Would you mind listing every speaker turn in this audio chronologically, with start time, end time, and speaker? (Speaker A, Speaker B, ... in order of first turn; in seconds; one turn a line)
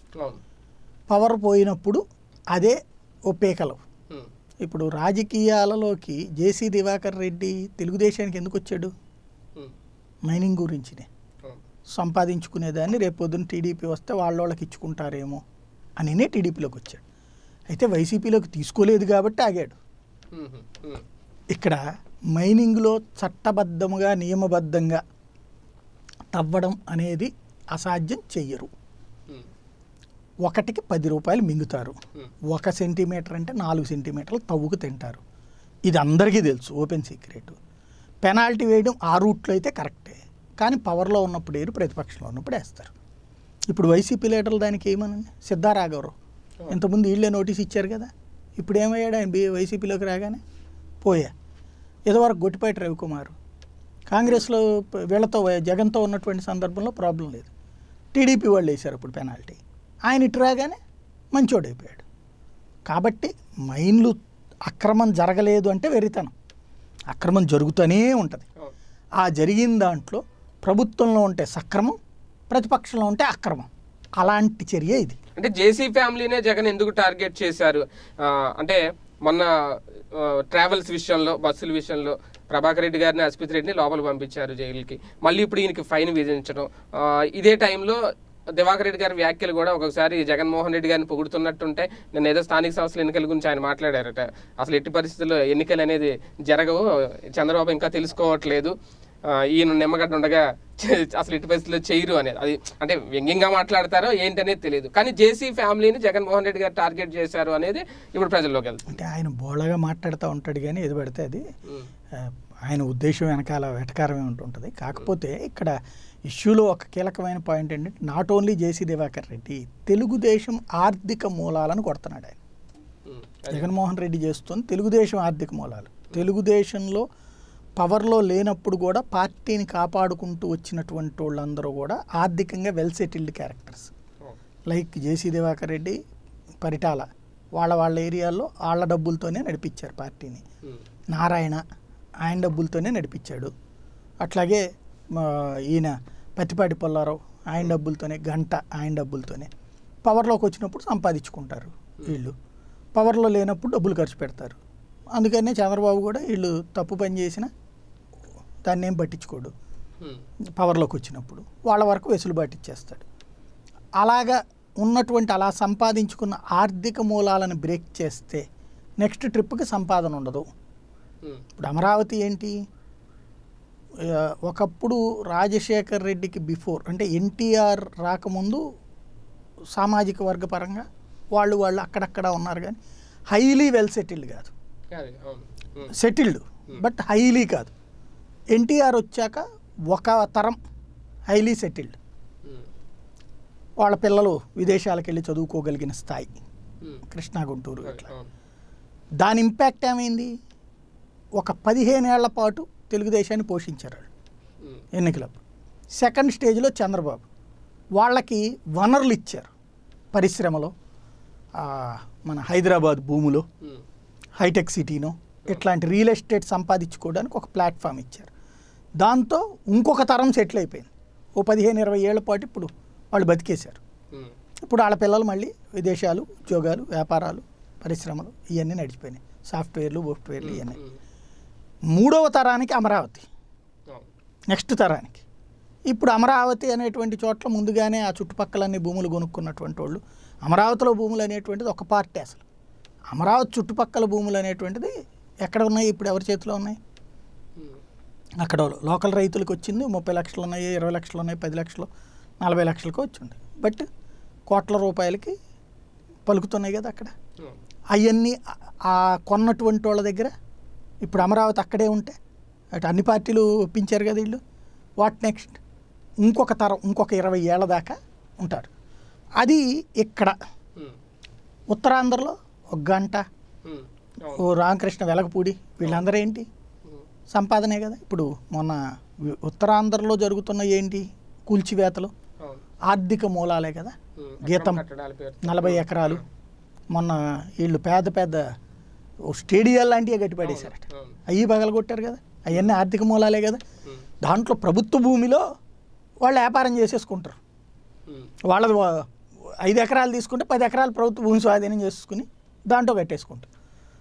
Speaker A: 1.1-2.0
Speaker A: 3.3-3.8
Speaker A: 4.6-8.9
Speaker A: 10.3-11.1
Speaker A: 11.9-15.4
Speaker A: 16.0-17.0
Speaker A: 17.7-19.8
Speaker B: 20.3-21.0
Speaker A: 21.5-21.8
Speaker A: 22.3-25.0
Speaker A: 26.3-28.7
Speaker A: 30.4-31.9
Speaker A: 32.5-35.2
Speaker A: 35.9-37.5
Speaker A: 38.2-42.9
Speaker A: 43.7-46.1
Speaker A: 46.7-50.4
Speaker A: 51.0-51.3
Speaker A: 52.1-53.4
Speaker A: 54.1-57.5
Speaker A: 58.1-60.8
Speaker A: 61.3-62.0
Speaker A: 62.9-66.3
Speaker A: 67.1-68.5
Speaker A: 69.2-72.0
Speaker A: 72.5-75.2
Speaker B: 75.4-79.5
Speaker B: 80.1-88.0
Speaker B: 88.5-98.7
Speaker B: 99.3-109.0
Speaker A: 108.9-111.4
Speaker A: 112.2-115.7
Speaker A: 116.3-122.4
Speaker B: 123.1-123.7
Speaker A: 123.5-127.0
Speaker A: 127.8-133.9
Speaker A: 134.7-136.0
Speaker A: 136.6-140.4
Speaker A: 141.1-141.6
Speaker A: 142.2-143.5
Speaker A: 144.2-149.5
Speaker A: 150.0-152.3
Speaker A: 152.9-154.6
Speaker A: 155.2-157.5
Speaker A: 158.7-159.5
Speaker A: 160.6-163.0
Speaker A: 164.0-168.4
Speaker A: 169.0-170.5
Speaker A: 171.6-172.5
Speaker A: 174.0-178.6
Speaker A: 179.7-182.8
Speaker A: 183.3-184.5
Speaker B: 184.9-185.9
Speaker A: 185.9-187.7
Speaker A: 188.5-190.6
Speaker A: 191.3-192.0
Speaker A: 193.8-196.4
Speaker A: 197.1-198.1
Speaker B: 197.8-198.3
Speaker A: 199.2-200.3
Speaker A: 201.4-204.1
Speaker A: 204.9-205.4
Speaker A: 206.0-207.2
Speaker A: 207.9-209.5
Speaker A: 210.1-210.7
Speaker A: 211.6-213.4
Speaker A: 214.4-218.3
Speaker A: 219.0-223.8
Speaker A: 224.6-230.8
Speaker B: 230.4-231.0
Speaker A: 231.9-233.2
Speaker A: 234.5-235.2
Speaker A: 235.9-242.4
Speaker A: 243.1-244.9
Speaker A: 245.4-246.8
Speaker A: 248.4-251.9
Speaker A: 252.4-253.8
Speaker A: 254.5-255.3
Speaker A: 256.2-257.1
Speaker A: 257.9-260.3
Speaker A: 261.0-262.1
Speaker A: 262.8-264.4
Speaker A: 265.0-265.6
Speaker A: 266.2-268.7
Speaker A: 269.4-270.3
Speaker A: 271.7-273.2
Speaker B: 273.6-274.4
Speaker A: 274.4-276.4
Speaker A: 277.3-282.1
Speaker A: 282.9-284.8
Speaker B: 284.2-286.2
Speaker A: 285.4-286.2
Speaker A: 286.9-288.4
Speaker A: 289.3-293.6
Speaker B: 290.4-291.1
Speaker A: 294.2-295.4
Speaker A: 296.2-297.4
Speaker A: 298.5-299.0
Speaker A: 299.6-303.5